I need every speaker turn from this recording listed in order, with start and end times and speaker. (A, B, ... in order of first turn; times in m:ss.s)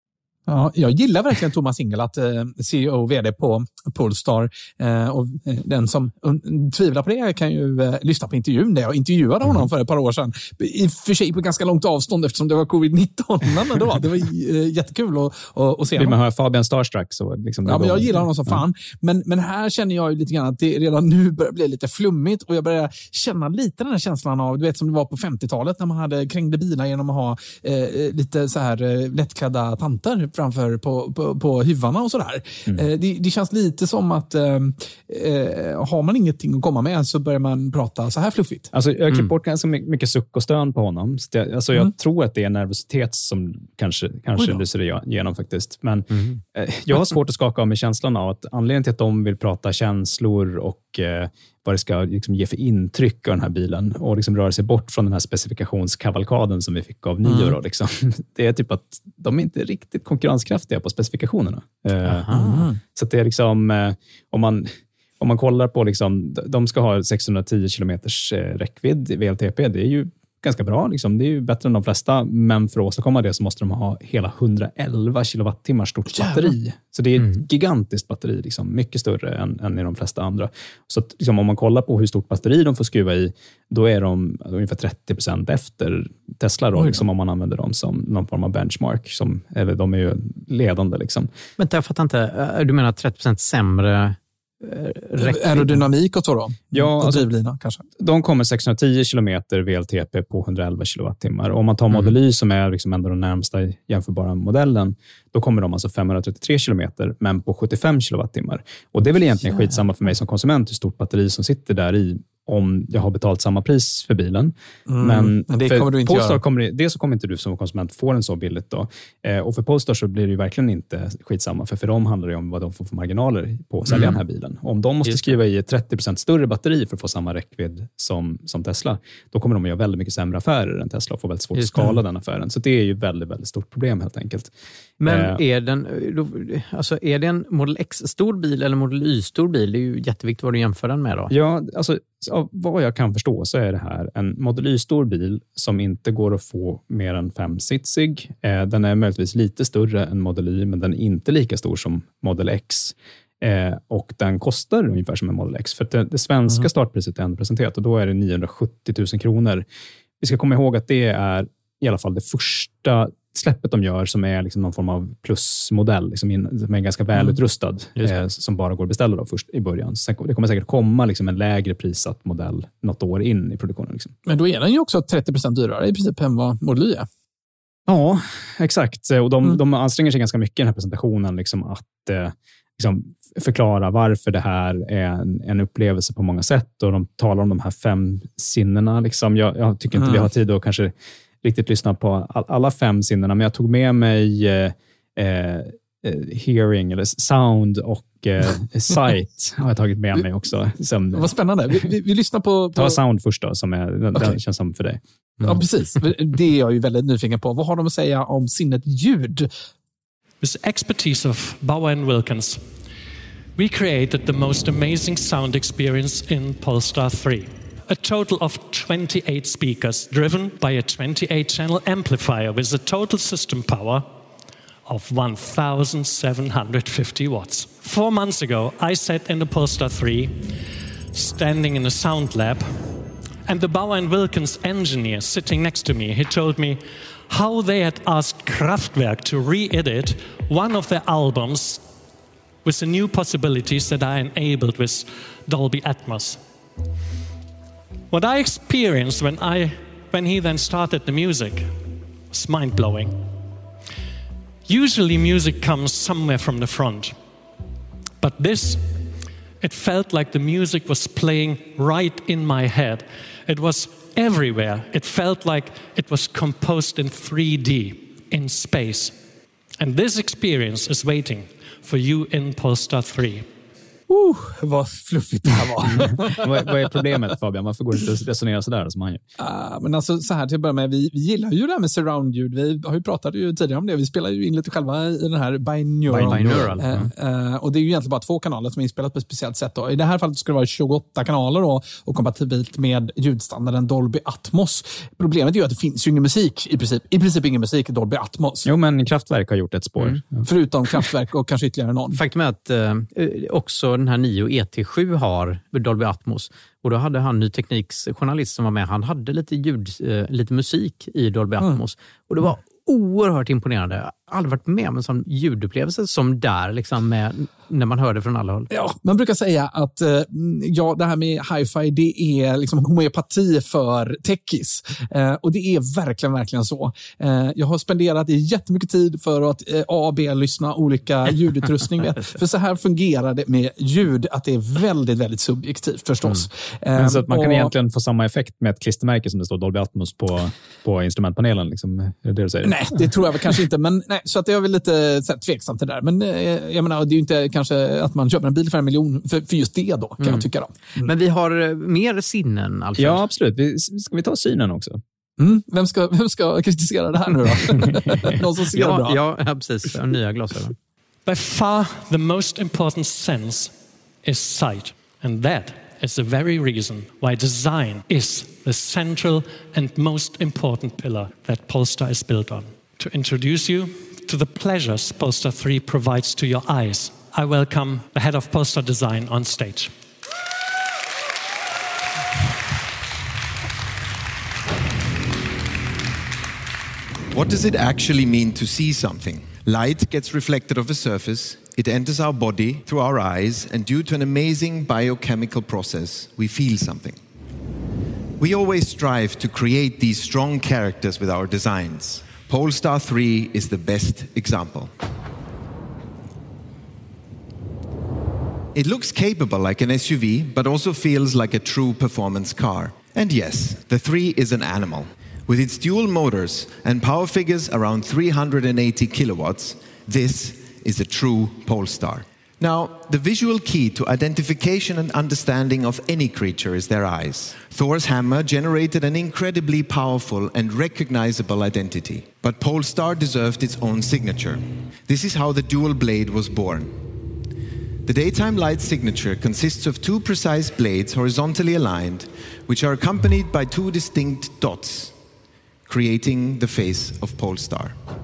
0:00.5-0:16.2 A
0:16.0-0:18.6 B
0:17.6-0:38.7 A
0:38.7-1:31.3 B
0:44.4-0:44.6 A
0:46.1-0:46.4 C
0:57.2-0:57.6 A
1:02.0-1:02.6 C
1:02.3-1:02.8 A
1:16.1-1:16.6 A
1:17.2-1:17.4 C
1:26.8-1:27.0 A
1:31.6-1:35.8 C
1:35.2-1:37.8 A
1:36.7-1:37.3 B
1:38.0-2:14.5 B
1:49.5-1:49.8 C
1:54.9-1:56.4 A
2:03.9-2:04.2 C
2:05.1-2:05.3 C
2:11.6-2:11.9 C
2:15.0-2:21.3 C
2:15.0-2:15.4 B
2:21.3-2:39.6 B
2:40.2-2:54.1 B
2:48.0-2:48.2 C
2:54.3-2:57.1 A
2:57.9-3:21.3 B
3:09.9-3:10.3 A
3:21.1-3:23.0 A
3:22.8-3:25.6 B
3:25.4-3:29.5 A
3:30.4-3:32.6 D
3:33.6-3:44.1 D
3:44.9-3:50.5 D
3:51.1-3:52.9 D
3:53.5-4:01.8 D
4:02.6-4:06.4 D
4:08.1-4:11.8 D
4:12.3-4:13.2 D
4:14.7-4:17.2 D
4:18.2-4:19.0 D
4:19.6-4:29.2 D
4:29.8-4:33.5 D
4:34.1-4:37.1 A
4:35.9-4:39.2 B
4:39.4-4:58.7 A
4:46.1-4:46.9 C
4:46.2-4:47.1 B
4:58.7-5:00.5 B
5:00.4-5:02.2 A
5:02.1-5:18.7 C
5:18.7-5:37.7 A
5:37.0-5:42.8 B
5:42.6-5:51.1 A
5:50.2-5:50.5 C
5:51.0-5:53.3 C
5:53.0-5:55.0 B
5:55.4-5:59.2 A
5:58.7-6:00.7 C
6:01.3-6:19.9 D
6:27.3-6:37.2 E
6:38.4-6:44.9 E
6:48.8-7:16.9 E
7:18.1-7:25.2 E
7:25.9-7:28.0 E